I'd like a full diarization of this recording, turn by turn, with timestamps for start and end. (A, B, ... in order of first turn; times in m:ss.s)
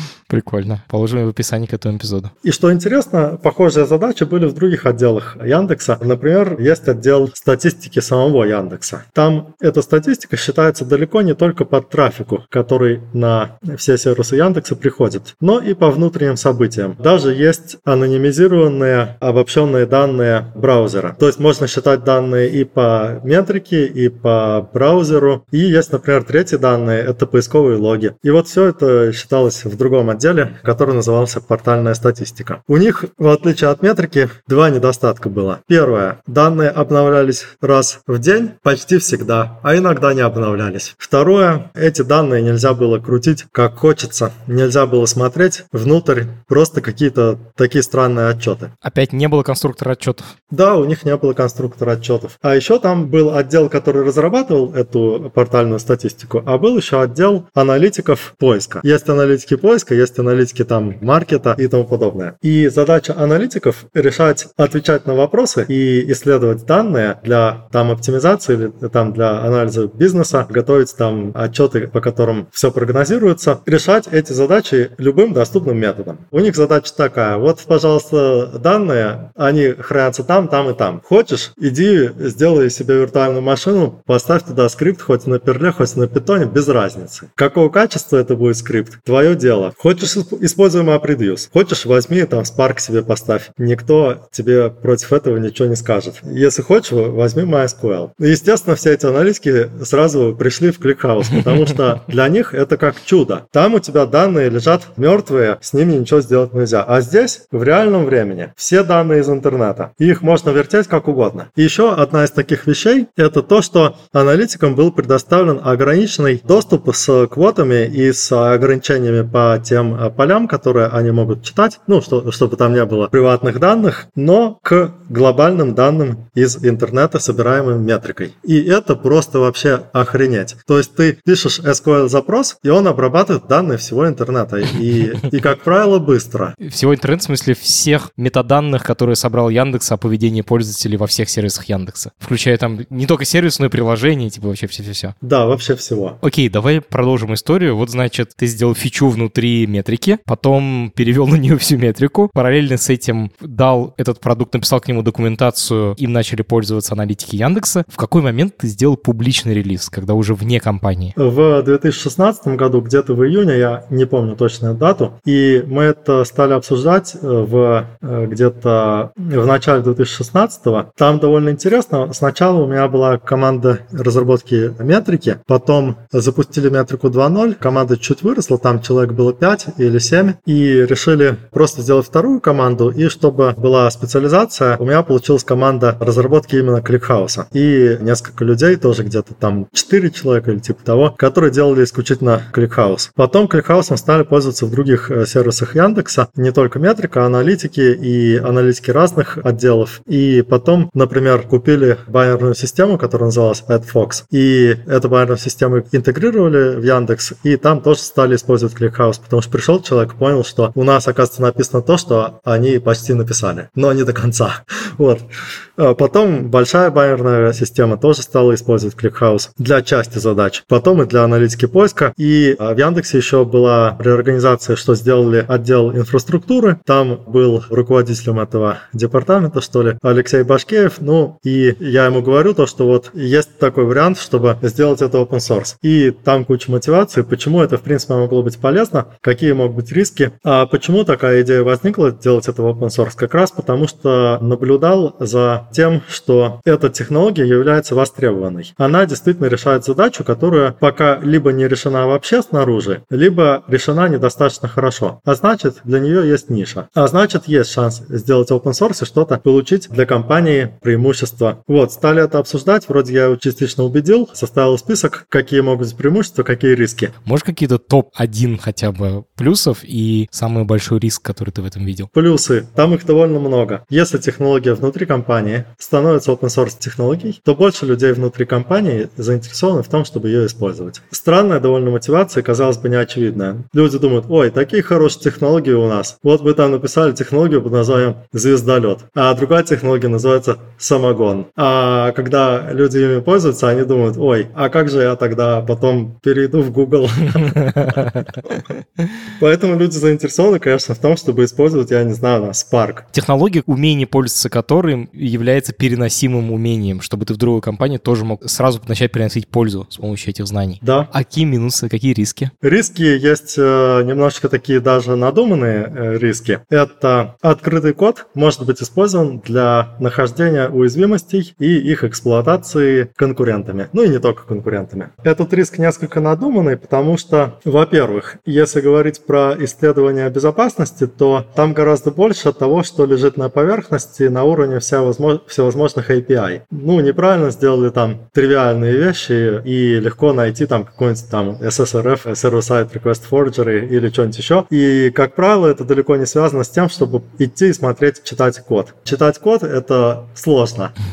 0:00.3-0:02.3 A
0:02.4-0:48.7 B
0:48.8-0:50.3 A
0:50.5-2:16.6 B
2:16.6-2:25.2 A
2:25.2-2:26.2 B
2:26.2-2:41.2 A
2:41.2-4:27.1 B
4:27.2-4:32.1 A
4:32.1-4:58.6 B
4:57.7-4:58.0 A
4:59.4-5:03.0 B
5:03.1-5:12.5 A
5:10.8-5:11.1 B
5:12.6-5:50.9 B